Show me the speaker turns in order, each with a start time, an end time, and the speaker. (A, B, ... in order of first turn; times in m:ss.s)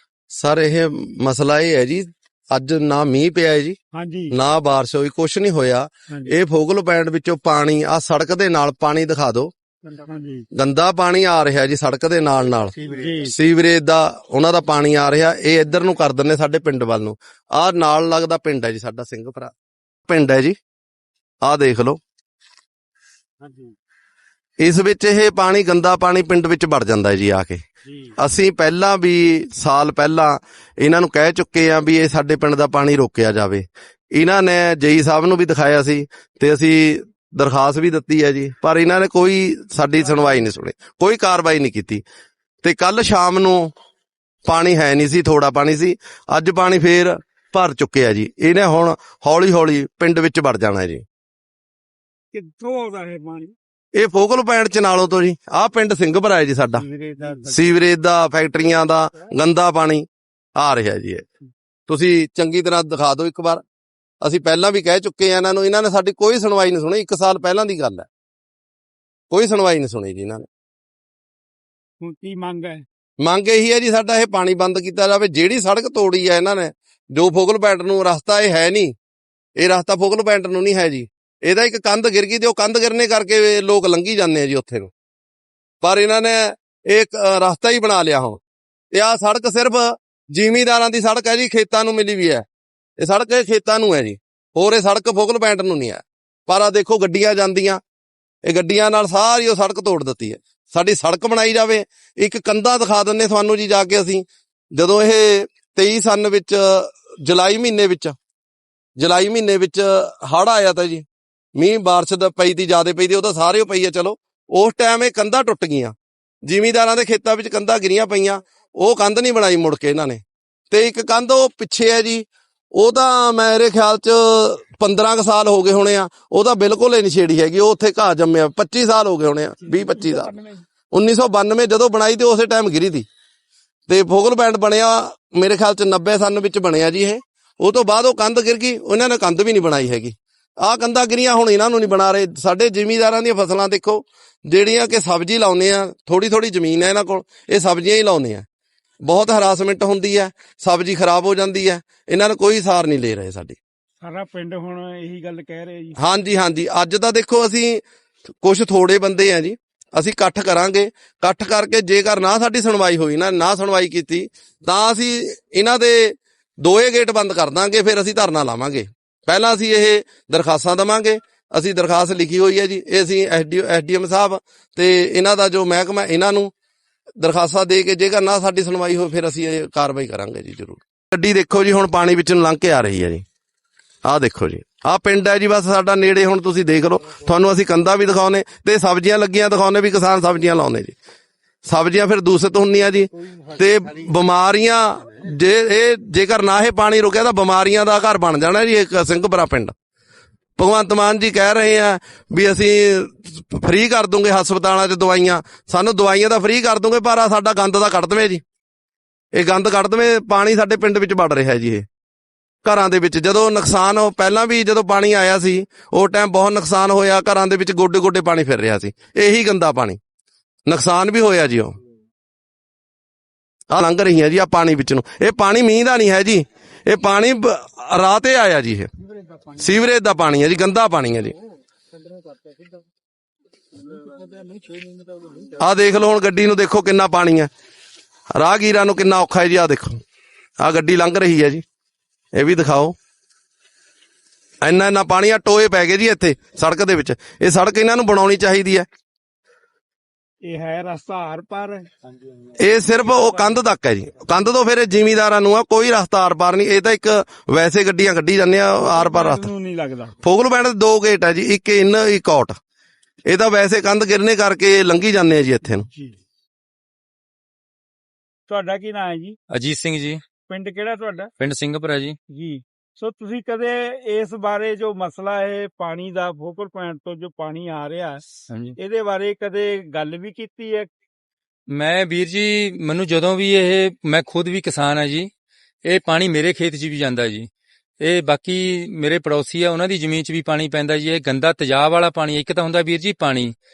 0:00.3-0:03.8 A
0:03.9-0:04.4 B
0:04.3-0:09.5 A
0:06.1-0:06.4 B
0:09.9-0:10.5 B
0:10.6-0:19.5 A
0:12.8-0:13.3 B
0:20.1-0:20.6 A
0:21.4-0:22.0 A
0:24.6-0:27.6 A
0:28.2-0:42.0 A
0:42.6-0:43.7 A
0:44.5-0:51.0 A
0:52.3-0:53.6 B
0:54.0-0:56.8 A
0:56.7-0:57.6 B
0:57.5-1:01.2 A
1:01.9-1:03.6 A
1:04.2-1:08.1 A
1:09.3-1:10.5 A
1:12.0-1:12.8 B
1:13.2-1:19.0 A
1:19.6-1:24.9 A
1:25.8-1:28.4 A
1:28.9-1:32.4 A
1:33.0-1:37.8 A
1:38.5-1:48.2 A
1:49.0-1:51.0 A
1:51.6-1:55.9 A
1:56.5-2:02.2 A
2:02.8-2:10.4 A
2:10.9-2:13.1 A
2:13.9-2:28.4 A
2:29.0-2:33.6 A
2:34.0-2:36.0 B
2:36.0-2:37.8 A
2:38.4-2:56.5 A
2:57.2-3:03.2 A
3:04.0-3:11.0 A
3:11.7-3:19.7 A
3:20.6-3:28.4 A
3:29.4-3:31.8 A
3:32.6-3:40.0 A
3:40.7-3:41.8 A
3:43.7-3:48.9 A
3:49.6-3:51.3 A
3:55.6-3:57.5 A
3:58.4-4:00.0 A
4:00.6-4:01.6 A
4:02.3-4:03.0 A
4:04.6-4:08.9 A
4:10.4-4:11.9 B
4:12.6-4:19.5 A
4:12.9-4:13.6 B
4:18.8-4:20.2 B
4:20.2-4:22.6 A
4:23.3-4:25.9 A
4:25.8-4:26.2 B
4:28.5-4:29.4 B
4:29.5-4:30.2 C
4:30.5-4:31.3 B
4:31.4-4:32.2 C
4:32.3-4:38.2 B
4:38.5-4:38.8 C
4:38.8-4:40.9 B
4:41.7-4:45.3 C
4:45.8-4:47.5 C
4:48.0-4:53.5 C